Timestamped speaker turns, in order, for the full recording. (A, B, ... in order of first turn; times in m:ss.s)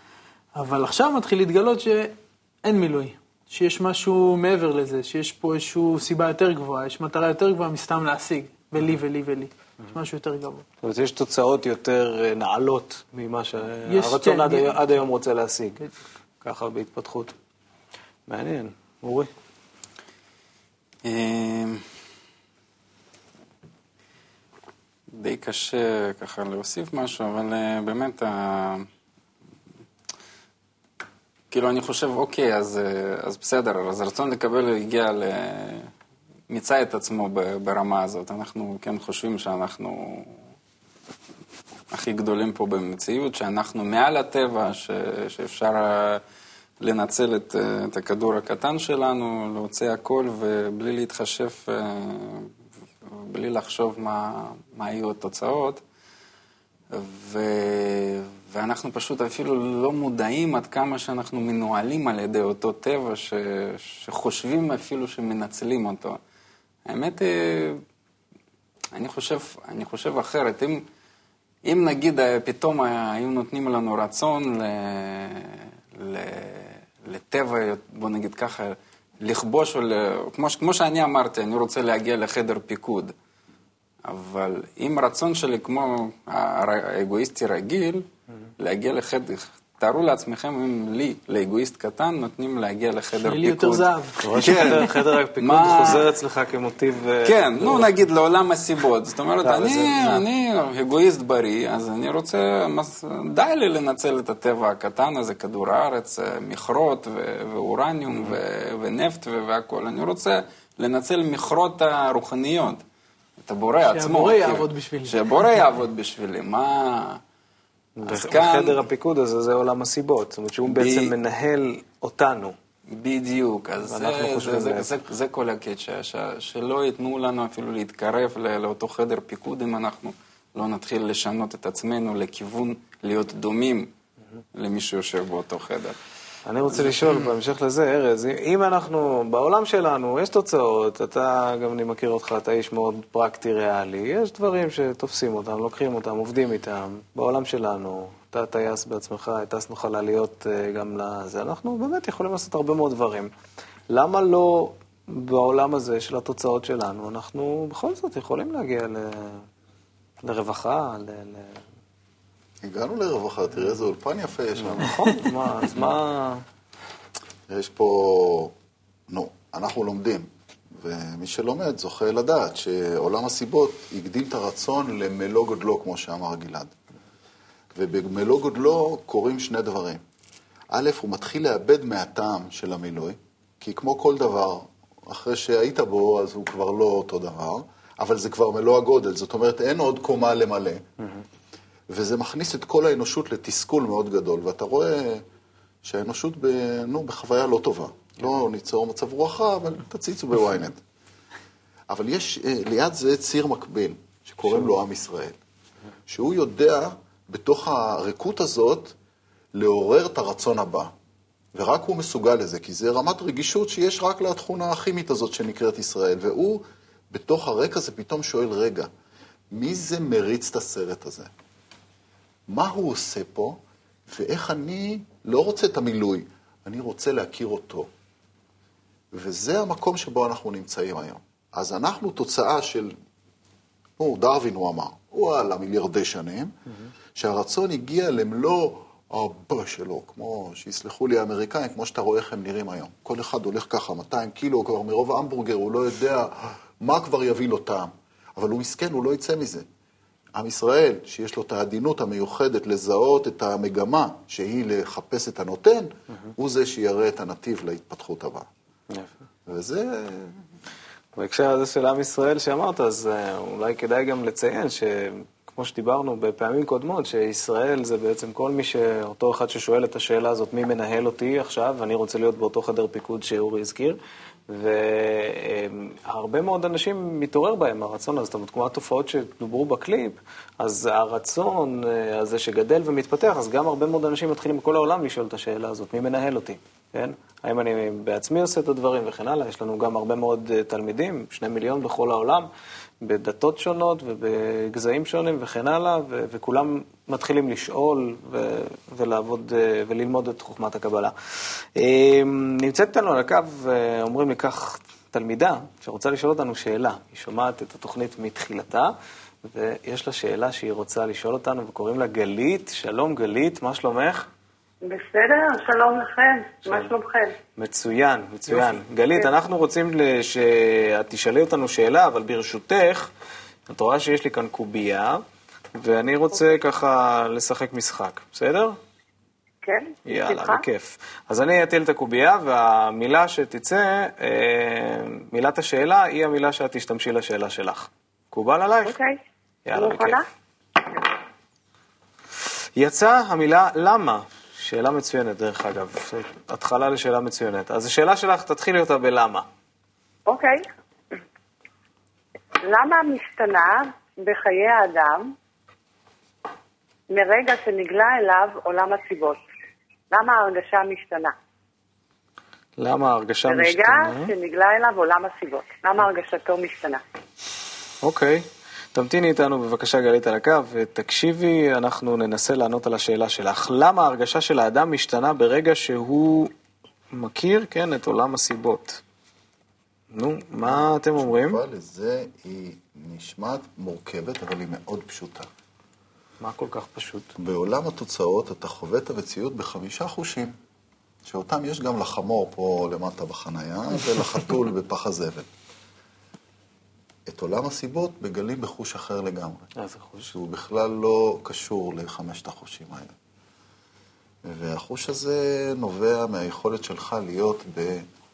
0:00.6-0:10.6 A
0:10.8-0:15.8 B
0:13.9-0:14.8 A
0:16.4-0:17.3 B
0:18.3-0:19.3 B
0:21.0-0:21.8 C
0:25.1-0:28.9 C
0:31.5-0:35.9 C
0:36.5-0:40.4 C
0:41.9-0:46.2 C
0:46.8-0:52.5 C
0:53.0-0:55.8 C
0:56.9-1:06.2 C
1:06.8-1:07.8 C
1:08.9-1:10.8 C
1:11.6-1:23.1 C
1:24.0-1:28.1 C
1:28.6-1:36.1 C
1:33.1-1:34.9 A
1:34.2-1:37.9 B
1:37.2-1:52.8 C
1:39.4-1:40.2 B
1:53.4-1:57.2 C
1:53.8-1:55.6 A
1:58.0-2:02.5 B
1:58.0-1:58.8 C
2:00.7-2:01.1 C
2:02.9-2:13.9 C
2:03.8-2:04.9 B
2:14.5-2:16.0 C
2:16.4-2:33.3 B
2:16.7-2:17.3 C
2:33.9-2:39.4 B
2:40.2-2:41.6 B
2:42.6-2:45.1 D
2:44.6-2:46.4 B
2:47.5-2:48.5 D
2:49.1-2:56.7 D
2:57.7-3:00.0 D
3:00.7-3:10.8 D
3:11.9-3:15.2 D
3:15.8-3:20.8 D
3:21.9-3:25.4 D
3:26.1-3:29.0 D
3:29.5-3:30.9 D
3:31.5-3:38.9 D
3:39.5-3:41.3 D
3:42.5-3:47.9 D
3:49.1-3:53.0 D
3:54.0-3:56.5 D
3:57.1-4:09.6 D
4:10.3-4:18.5 D
4:18.9-4:19.1 B
4:19.4-4:20.4 D
4:21.2-4:52.5 B
4:53.0-5:14.3 B
5:14.8-5:17.3 E
5:16.6-5:16.9 B
5:17.5-5:23.1 B
5:23.7-5:25.2 B
5:25.7-5:28.8 B
5:29.6-5:30.6 E
5:30.0-5:39.0 B
5:38.8-5:39.2 E
5:39.6-5:40.2 B
5:39.7-5:40.2 E
5:42.8-5:49.4 B
5:50.3-5:50.6 E
5:52.6-5:55.3 E
5:57.1-5:59.4 E
6:00.1-6:01.3 E
6:02.8-6:04.3 B
6:03.5-6:07.0 E
6:08.0-6:16.5 B
6:17.1-6:19.0 B
6:20.1-6:21.6 B
6:20.6-6:25.5 D
6:26.4-6:27.3 B
6:27.4-6:30.5 D
6:31.2-6:35.5 D
6:37.3-6:39.7 D
6:39.8-6:40.3 B
6:40.3-6:43.1 D
6:44.4-6:48.1 D